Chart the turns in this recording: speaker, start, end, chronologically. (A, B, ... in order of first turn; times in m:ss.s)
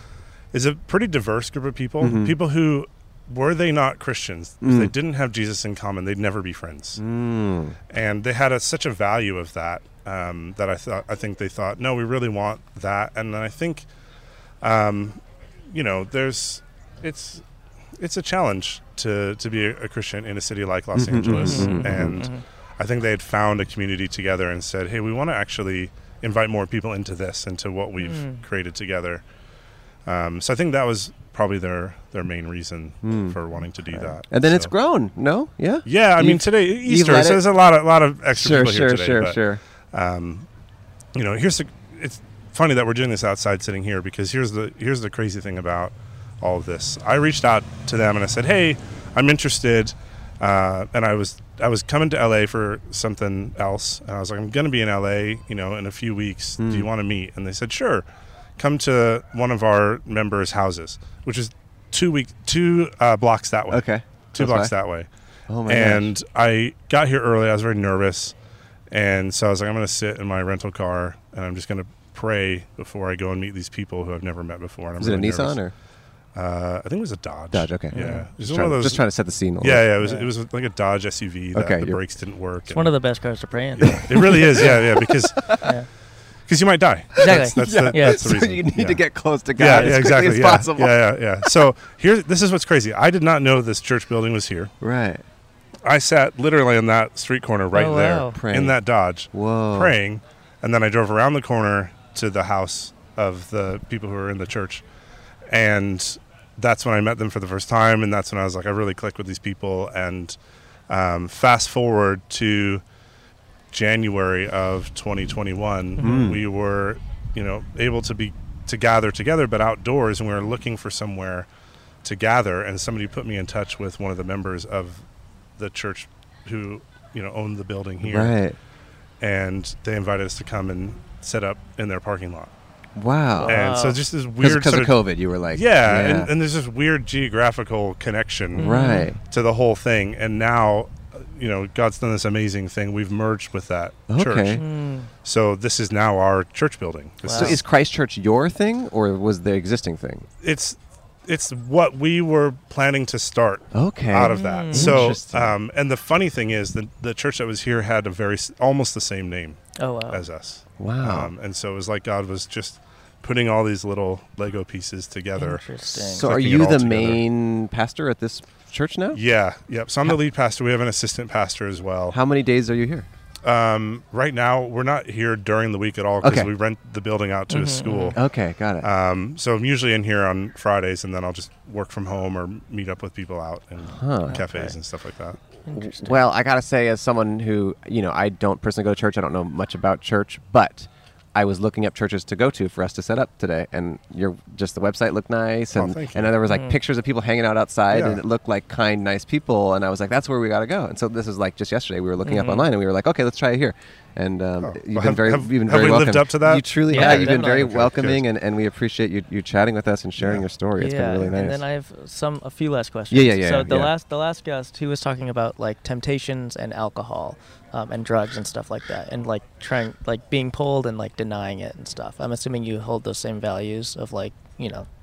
0:00.5-0:07.0 A
0:02.0-0:02.3 B
0:04.6-0:04.9 B
0:07.0-0:07.8 B
0:07.9-0:13.8 A
0:14.6-0:17.4 A
0:18.0-0:29.2 A
0:20.9-0:22.2 B
0:21.4-0:22.4 C
0:28.0-0:28.4 C
0:30.0-0:34.7 A
0:33.0-0:33.4 B
0:34.0-0:37.4 B
0:35.8-0:39.4 A
0:38.3-0:39.6 B
0:39.9-0:40.5 A
0:41.1-0:58.0 A
0:56.6-0:56.9 B
0:58.6-1:05.1 A
1:03.7-1:04.7 B
1:05.5-1:06.1 B
1:05.7-1:08.3 A
1:08.9-1:15.6 A
1:15.0-1:15.7 B
1:16.3-1:19.0 A
1:17.5-1:19.9 B
1:17.9-1:18.3 C
1:19.6-1:22.9 A
1:21.5-1:22.0 B
1:22.7-1:24.0 C
1:23.7-1:25.7 A
1:23.8-1:25.7 B
1:25.6-1:25.9 C
1:26.5-1:29.0 A
1:27.2-1:31.5 B
1:27.2-1:28.3 C
1:29.5-1:34.7 A
1:29.7-1:30.0 C
1:34.8-1:35.2 B
1:35.8-1:44.8 A
1:37.7-1:38.4 C
1:38.3-1:38.8 B
1:39.3-1:39.9 B
1:45.5-1:50.4 A
1:50.9-1:52.8 A
1:53.7-2:01.5 A
1:56.0-1:56.3 C
1:56.0-1:56.4 B
2:02.0-2:05.0 A
2:05.6-2:08.4 A
2:08.0-2:08.6 B
2:09.2-2:12.5 A
2:13.0-2:13.6 B
2:13.4-2:14.0 C
2:13.4-2:15.0 A
2:14.4-2:16.3 B
2:15.5-2:24.6 A
2:18.6-2:19.1 C
2:18.6-2:19.2 B
2:24.1-2:24.6 B
2:24.5-2:25.1 C
2:25.2-2:27.6 A
2:27.2-2:27.6 C
2:27.3-2:30.3 B
2:30.4-2:47.2 A
2:33.7-2:35.6 B
2:34.2-2:35.0 C
2:39.8-2:40.2 C
2:40.8-2:41.3 B
2:45.4-2:46.3 C
2:46.1-2:49.2 B
2:49.1-2:52.2 A
2:52.1-2:53.1 B
2:53.4-2:58.2 A
2:56.2-2:56.5 B
2:57.5-2:58.2 C
2:58.1-2:58.9 B
2:58.8-3:05.4 A
3:03.9-3:04.4 B
3:04.2-3:04.7 C
3:05.7-3:06.2 C
3:05.7-3:31.6 B
3:15.7-3:16.4 A
3:16.5-3:16.8 C
3:17.9-3:18.2 A
3:22.2-3:22.7 C
3:24.6-3:28.2 A
3:26.9-3:27.7 C
3:30.2-3:30.4 A
3:30.8-3:44.9 C
3:33.1-3:33.9 B